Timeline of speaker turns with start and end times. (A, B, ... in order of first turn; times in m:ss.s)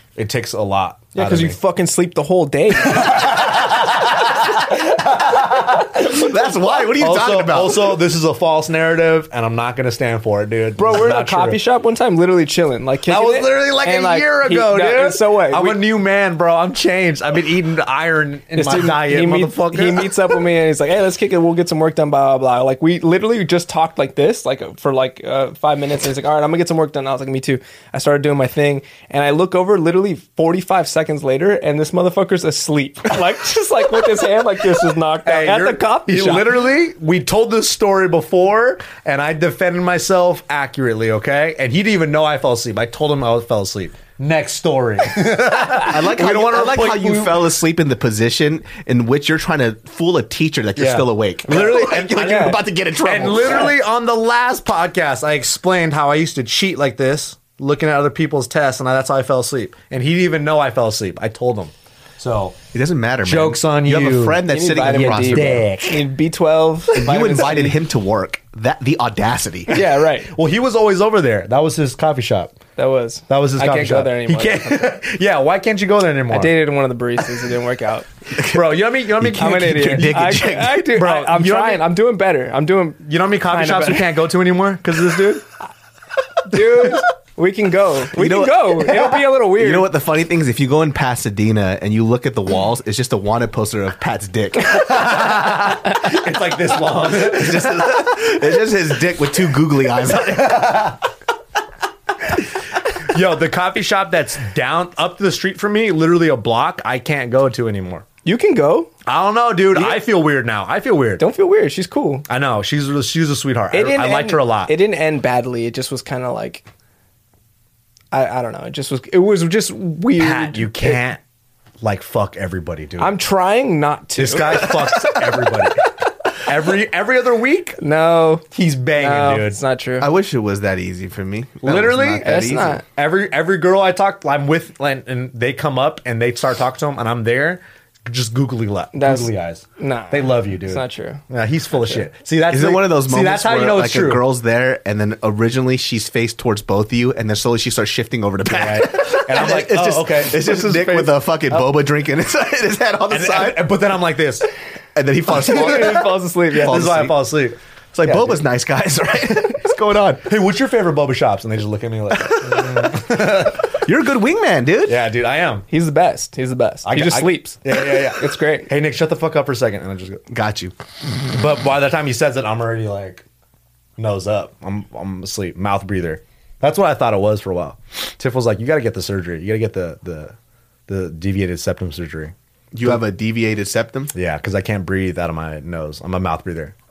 0:00.2-0:01.6 A
0:01.1-0:03.6 B
0:02.8-0:05.9 A
0:05.9-0:08.0 C
0:06.9-0:11.6 A
0:10.8-0:15.8 B
0:13.1-0:20.4 A
0:18.5-0:36.6 B
0:35.2-0:47.4 A
0:45.8-0:53.7 C
0:50.8-1:02.6 A
0:51.6-0:52.6 B
1:02.7-1:05.6 C
1:03.2-1:06.1 A
1:04.5-1:07.8 B
1:07.0-1:09.8 C
1:09.7-1:10.3 B
1:10.3-1:12.6 A
1:12.8-1:15.0 B
1:13.3-1:16.5 A
1:16.3-1:18.1 B
1:18.3-1:20.9 C
1:18.4-1:20.3 A
1:19.4-1:24.2 B
1:20.9-1:21.8 A
1:23.0-1:25.4 A
1:26.5-1:29.9 B
1:26.5-1:27.0 A
1:28.1-1:34.9 C
1:34.7-1:38.1 A
1:37.0-1:40.9 C
1:40.3-1:41.0 A
1:43.0-1:48.0 A
1:48.2-1:48.9 B
1:49.0-1:51.2 A
1:49.7-1:50.1 B
1:51.2-1:52.2 B
1:52.3-1:54.7 A
1:53.7-1:56.6 B
1:58.1-2:01.0 B
2:00.2-2:01.2 A
2:01.8-2:03.1 A
2:03.0-2:04.8 B
2:04.2-2:07.8 A
2:07.8-2:10.1 B
2:08.5-2:09.6 A
2:10.0-2:12.8 C
2:11.6-2:24.2 A
2:12.2-2:12.8 B
2:18.9-2:21.2 B
2:21.7-2:22.0 B
2:22.5-2:33.7 C
2:28.5-2:31.7 A
2:33.1-2:34.5 A
2:34.9-2:37.2 C
2:35.3-2:36.9 B
2:36.5-2:37.6 A
2:37.9-2:40.2 C
2:40.2-2:43.8 A
2:42.2-2:45.0 C
2:44.8-2:45.7 A
2:45.7-2:48.7 B
2:46.8-2:50.2 A
2:50.3-2:50.7 C
2:51.3-2:53.2 A
2:54.0-3:00.3 A
3:00.9-3:02.3 A
3:02.7-3:04.1 C
3:04.1-3:06.7 A